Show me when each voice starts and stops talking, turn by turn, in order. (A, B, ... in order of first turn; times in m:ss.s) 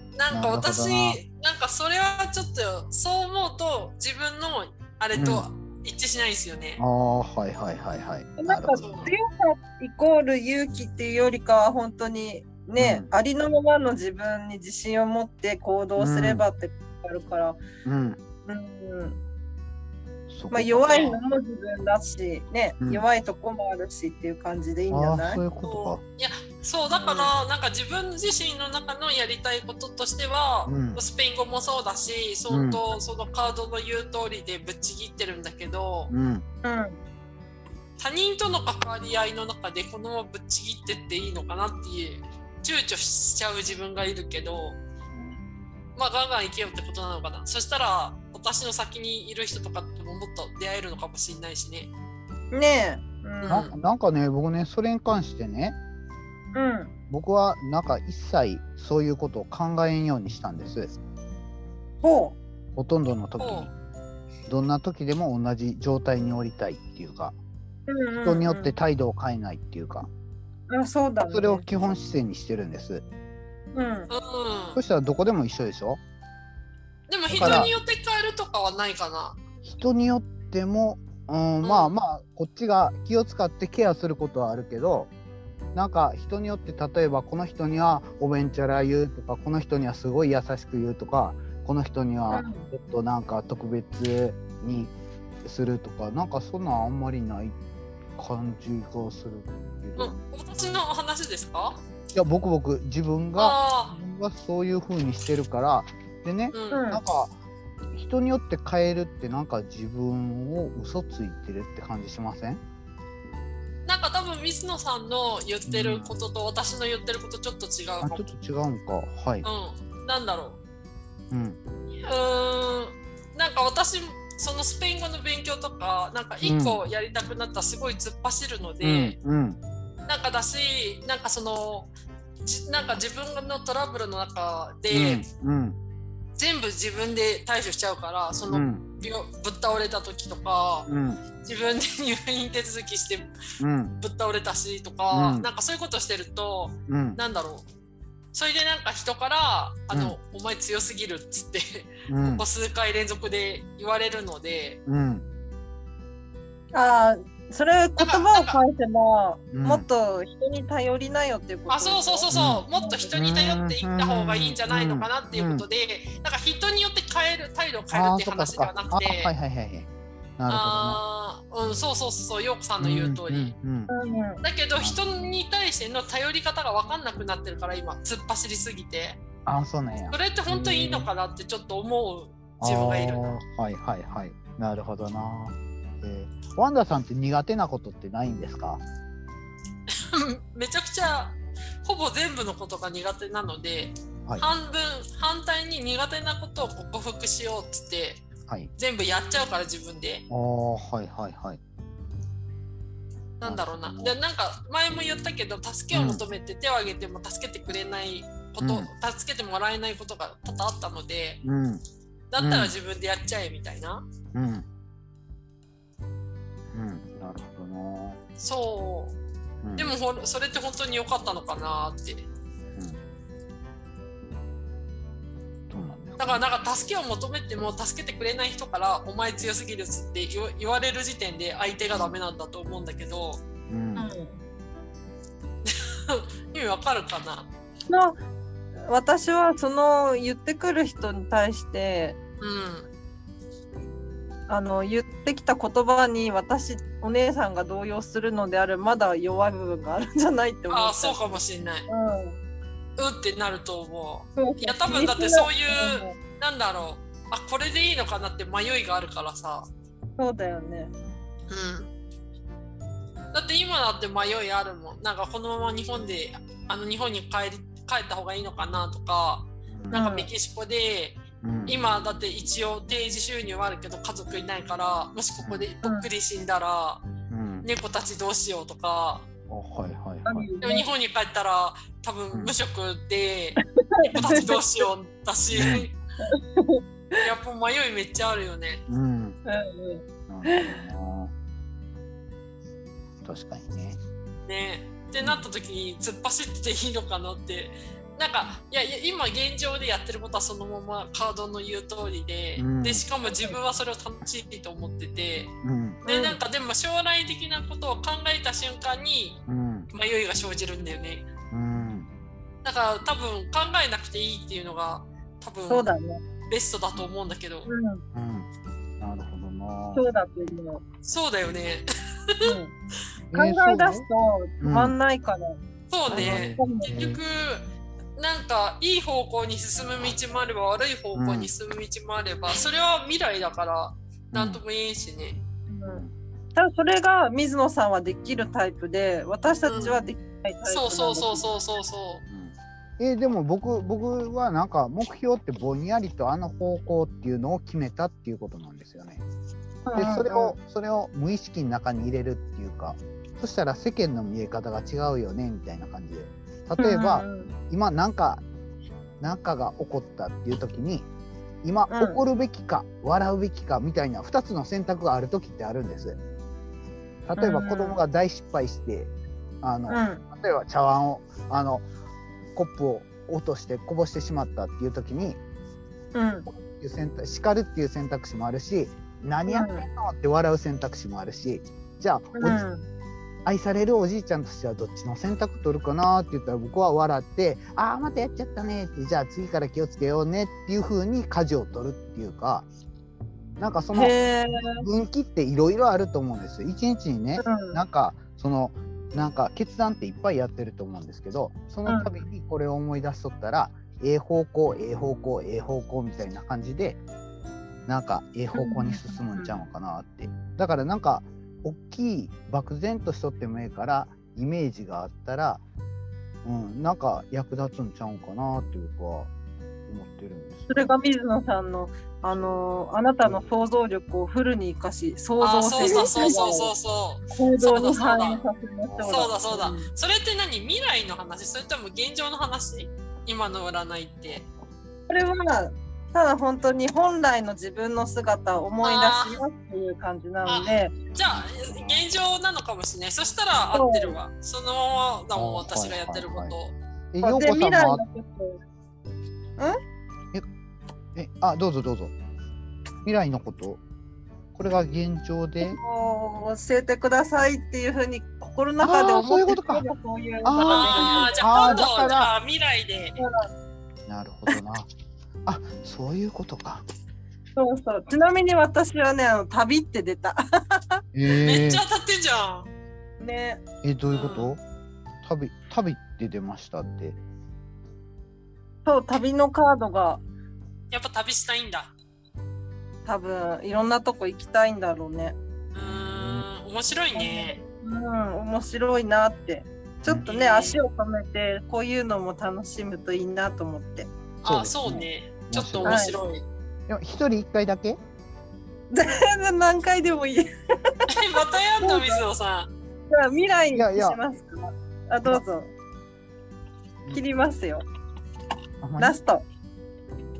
0:00.2-0:06.8 A
0:00.3-0:01.2 B
0:05.1-0:05.4 B
0:06.8-0:09.1 B
0:08.4-0:17.6 C
0:08.7-0:09.1 A
0:12.8-0:13.1 B
0:16.0-0:16.4 B
0:17.8-0:18.2 B
0:18.4-0:19.2 C
0:20.3-0:21.2 B
0:20.5-0:25.4 C
0:24.9-0:26.0 B
0:25.6-0:36.1 A
0:26.9-0:27.3 C
0:30.6-0:31.0 B
0:32.5-0:32.8 B
0:36.1-0:36.4 B
0:36.6-0:37.0 C
0:38.0-0:44.8 A
0:46.0-0:51.9 A
0:52.5-0:53.7 C
0:53.4-0:53.7 A
0:53.5-0:55.8 B
0:56.5-0:56.9 C
0:57.1-1:00.9 B
1:02.0-1:02.4 C
1:02.8-1:03.7 B
1:03.4-1:03.7 A
1:04.5-1:07.3 B
1:07.9-1:08.8 C
1:08.2-1:10.1 B
1:10.7-1:11.6 C
1:11.3-1:13.0 B
1:13.7-1:14.1 C
1:14.1-1:14.8 A
1:14.7-1:16.0 B
1:17.1-1:19.4 A
1:17.3-1:17.7 B
1:17.4-1:17.7 C
1:19.6-1:25.1 B
1:21.6-1:21.9 A
1:25.7-1:37.6 B
1:32.3-1:32.7 C
1:38.2-1:40.8 B
1:40.0-1:41.8 A
1:42.1-1:47.3 B
1:43.4-1:43.9 A
1:46.5-1:46.8 A
1:46.7-1:47.0 C
1:47.9-1:52.6 B
1:53.8-1:58.2 A
1:55.7-1:56.1 B
1:58.0-1:59.4 B
1:59.4-2:00.6 A
2:01.3-2:01.6 B
2:02.0-2:09.2 A
2:06.4-2:06.8 B
2:08.8-2:09.6 B
2:10.1-2:11.9 A
2:12.4-2:15.2 A
2:14.9-2:15.8 B
2:16.4-2:20.9 A
2:18.5-2:18.8 B
2:20.9-2:21.2 B
2:21.4-2:23.3 A
2:23.6-2:23.9 B
2:24.0-2:27.6 A
2:25.1-2:25.5 B
2:26.9-2:27.2 B
2:28.3-2:34.8 A
2:29.9-2:30.2 B
2:32.1-2:32.4 B
2:34.8-2:35.2 B
2:36.7-2:43.1 C
2:38.0-2:38.6 A
2:39.5-2:39.8 B
2:41.7-2:49.3 A
2:42.3-2:45.6 B
2:47.9-2:51.0 B
2:50.5-2:53.5 A
2:52.8-2:53.9 B
2:53.9-2:54.4 C
2:54.4-2:59.2 A
2:54.8-2:55.3 B
2:59.4-3:01.1 B
3:00.1-3:03.4 A
3:02.6-3:08.8 B
3:09.9-3:18.2 A
3:18.8-3:20.2 A
3:20.3-3:21.6 B
3:23.4-3:31.4 A
3:23.4-3:24.2 B
3:25.9-3:26.2 B
3:28.6-3:28.9 B
3:31.4-3:31.8 B
3:32.3-3:34.0 A
3:32.4-3:32.7 B
3:34.3-3:34.6 B
3:36.7-3:38.2 B
3:38.4-3:39.2 A
3:39.6-3:39.9 B
3:39.8-3:42.3 A
3:45.7-3:46.4 B
3:46.2-3:53.4 A
3:51.9-3:52.2 B
3:53.7-3:54.1 B
3:54.0-3:54.4 C
3:55.6-3:57.5 A
3:57.9-3:58.2 C
3:58.9-4:02.2 C
4:02.4-4:02.9 A
4:04.5-4:12.4 C
4:10.7-4:11.9 A
4:13.0-4:19.6 A
4:14.4-4:16.1 C
4:20.2-4:20.9 C
4:21.5-4:21.9 A
4:23.3-4:37.0 A
4:29.9-4:30.3 C
4:31.4-4:31.8 B
4:35.4-4:35.6 B
4:35.8-4:36.1 C
4:37.3-4:37.7 B
4:37.6-4:39.2 A
4:39.5-4:40.5 B
4:40.2-4:40.8 C
4:40.6-4:45.9 A
4:43.8-4:44.6 C
4:44.1-4:44.4 B
4:45.5-4:45.9 B
4:46.2-4:47.3 C
4:47.2-4:48.8 A
4:48.9-4:49.4 B
4:49.4-4:50.8 C
4:50.3-4:51.3 B
4:53.2-4:54.0 B
4:54.5-5:05.5 A
4:55.2-4:55.5 B
5:02.6-5:03.0 B
5:03.2-5:03.6 C
5:05.6-5:06.0 B
5:06.0-5:06.4 C
5:06.0-5:09.4 A
5:09.5-5:09.9 B
5:09.9-5:11.3 A
5:11.5-5:12.1 B
5:12.6-5:15.9 A
5:15.7-5:16.2 C
5:16.5-5:17.7 A
5:17.7-5:18.0 C
5:18.1-5:18.5 B
5:19.0-5:20.0 B
5:19.9-5:20.8 C
5:21.0-5:22.6 A
5:22.4-5:22.7 C
5:23.3-5:24.1 B
5:23.3-5:27.0 C
5:24.6-5:24.9 B
5:25.9-5:27.6 A
5:26.1-5:27.2 B
5:28.2-5:35.4 A
5:31.1-5:31.5 B
5:34.3-5:34.6 B
5:35.7-5:41.4 C
5:39.7-5:39.9 A
5:39.7-5:40.0 B
5:40.7-5:42.2 A
5:42.3-5:49.2 B
5:49.8-5:50.6 C
5:50.0-5:58.4 B
5:56.8-5:57.5 C
5:59.2-6:01.1 B
6:01.6-6:06.2 B
6:01.9-6:02.2 C
6:07.2-6:11.8 B
6:07.4-6:08.0 C
6:09.9-6:10.2 C
6:12.5-6:15.4 B
6:16.1-6:16.4 C
6:16.5-6:22.6 B
6:19.5-6:19.8 C
6:22.4-6:22.8 C
6:23.4-6:32.7 B
6:33.6-6:47.0 B
6:33.9-6:34.8 C
6:37.4-6:37.8 C
6:41.9-6:42.2 C
6:47.9-6:55.6 B
6:48.5-6:49.5 C
6:56.4-6:59.3 B
6:59.9-7:00.7 B
7:00.7-7:06.7 C
7:03.2-7:03.5 B
7:05.4-7:08.4 A
7:05.8-7:06.3 B
7:07.3-7:09.9 C
7:08.8-7:09.3 B
7:09.1-7:14.5 A
7:15.1-7:21.0 C
7:18.8-7:19.4 A
7:20.4-7:26.7 A
7:21.2-7:22.0 B
7:23.7-7:24.2 C
7:25.3-7:26.5 B
7:27.1-7:28.0 B
7:27.2-7:28.6 C
7:31.1-7:32.1 B
7:33.0-7:33.8 B
7:34.5-7:35.8 B
7:35.6-7:41.5 C
7:38.8-7:39.8 B
7:40.4-7:42.3 B
7:40.6-7:43.2 A
7:43.2-7:43.5 C
7:44.1-7:44.9 B
7:45.4-7:46.8 B
7:47.6-7:51.0 C
7:51.1-7:51.8 B
7:51.3-7:52.7 A
7:53.2-7:53.6 C
7:53.8-7:54.6 B
7:54.1-7:54.5 A
7:55.2-7:57.2 B
7:58.8-8:00.2 C
8:00.9-8:01.9 A
8:03.0-8:05.4 C
8:05.7-8:07.6 A
8:05.8-8:06.4 B
8:07.1-8:14.1 C
8:10.2-8:10.8 A
8:14.4-8:16.1 B
8:14.4-8:16.4 A
8:15.8-8:16.2 C
8:16.9-8:18.0 B
8:18.9-8:20.5 C
8:21.1-8:22.7 A
8:21.8-8:22.2 C
8:23.1-8:25.7 C
8:23.7-8:24.2 B
8:27.1-8:27.8 C
8:28.8-8:29.2 B
8:29.0-8:29.4 C